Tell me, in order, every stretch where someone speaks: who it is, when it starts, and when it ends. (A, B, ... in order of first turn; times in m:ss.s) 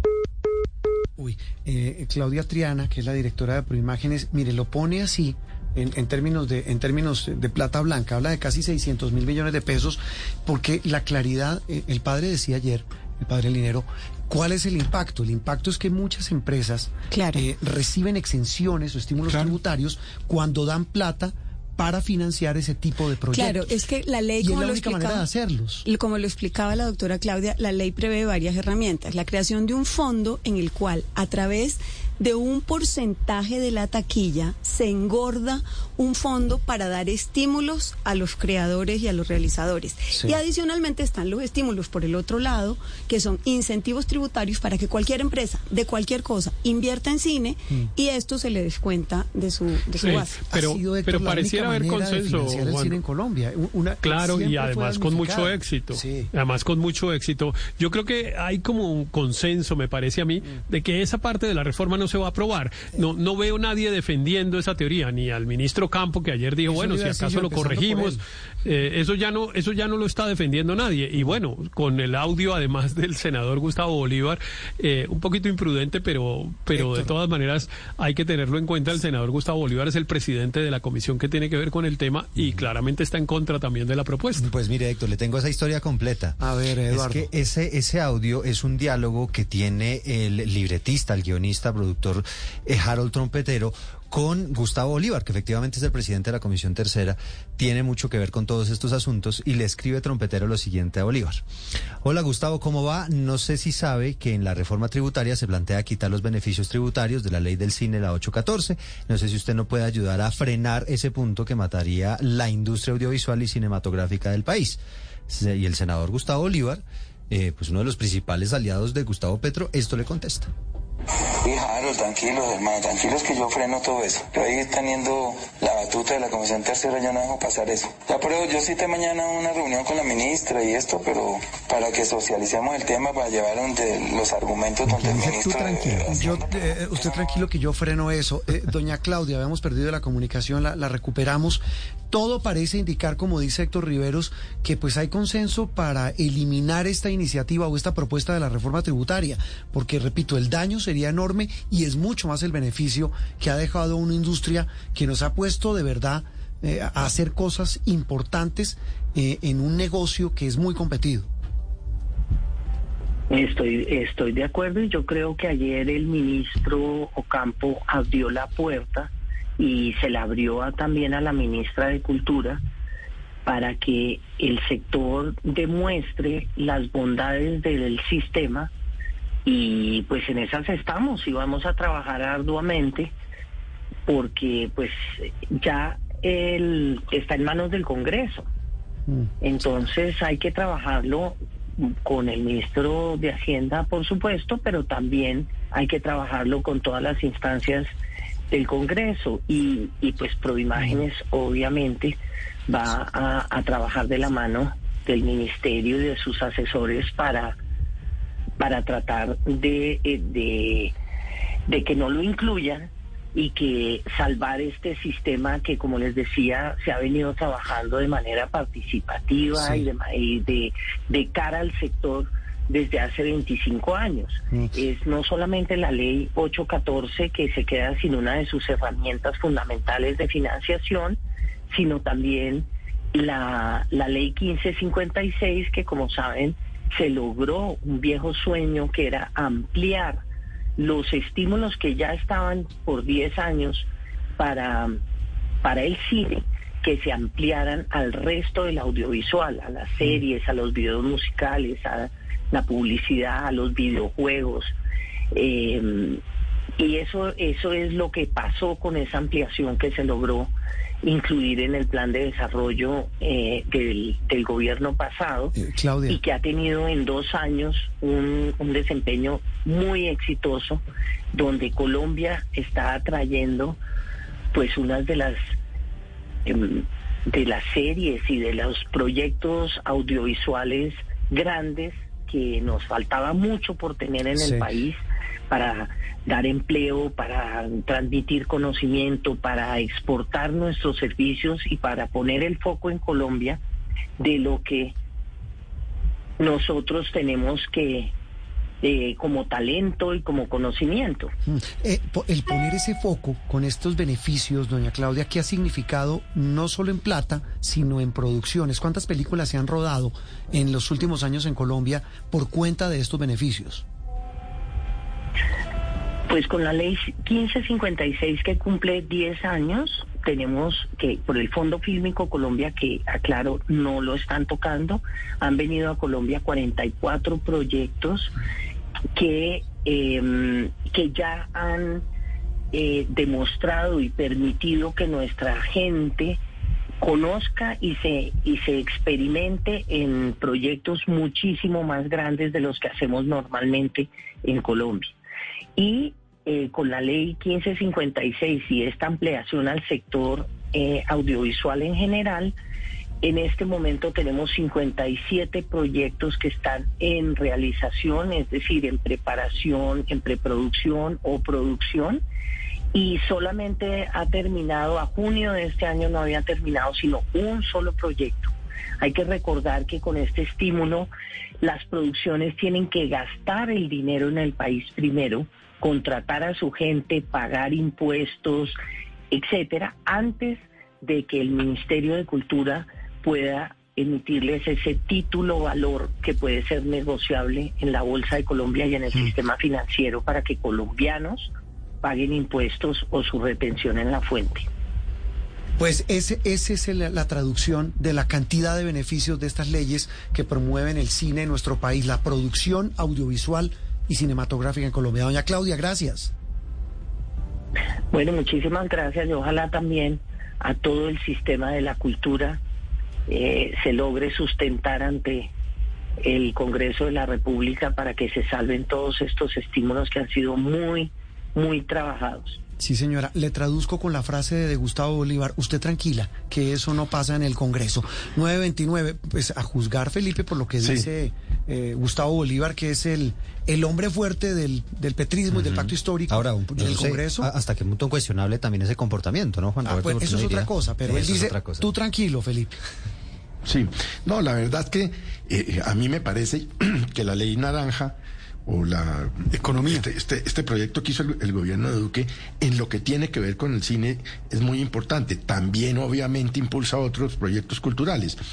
0:01.2-0:23.7 A
0:17.1-0:17.4 B
0:23.3-0:25.3 B
0:24.4-0:25.8 A
0:25.8-0:50.4 B
0:50.0-0:53.0 C
0:50.4-0:56.3 A
0:54.0-1:24.5 C
1:06.6-1:08.2 A
1:16.7-1:17.1 A
1:24.4-1:41.4 D
1:26.4-1:27.3 A
1:42.0-2:00.5 D
2:01.4-2:16.3 E
2:14.8-2:41.3 A
2:43.3-2:52.6 F
2:53.5-2:58.7 F
2:59.5-3:03.1 F
3:04.1-3:08.5 F
3:09.4-3:17.9 F
3:18.5-3:27.6 F
3:28.6-3:30.9 F
3:31.7-3:51.2 F
3:39.6-3:39.9 A
3:51.7-4:00.2 F
4:00.8-4:05.0 F
4:05.6-4:14.8 F
4:15.3-4:16.2 F
4:16.8-4:20.5 F
4:21.0-4:25.6 F
4:25.6-4:26.2 A
4:26.1-4:30.8 F
4:31.3-4:33.8 F
4:34.5-4:35.4 F
4:36.5-4:53.6 F
4:44.4-4:44.6 A
4:54.2-4:55.0 F
4:56.4-4:58.1 F
4:58.8-5:01.3 F
5:01.5-5:13.8 A
5:16.3-5:28.3 F
5:29.2-5:32.0 F
5:32.7-5:36.4 F
5:37.0-5:45.1 F
5:45.8-5:52.6 F
5:53.2-6:02.2 F
6:02.9-6:11.1 F
6:11.6-6:18.7 F
6:19.3-6:31.5 F
6:32.0-6:34.7 F
6:35.8-6:46.3 A
6:48.1-6:52.6 F
6:53.3-6:55.5 F
6:56.2-7:02.6 F
7:02.8-7:17.5 A
7:10.8-7:11.1 G
7:15.5-7:21.9 D
7:19.8-7:22.8 A
7:23.6-7:38.4 G
7:29.5-7:30.1 A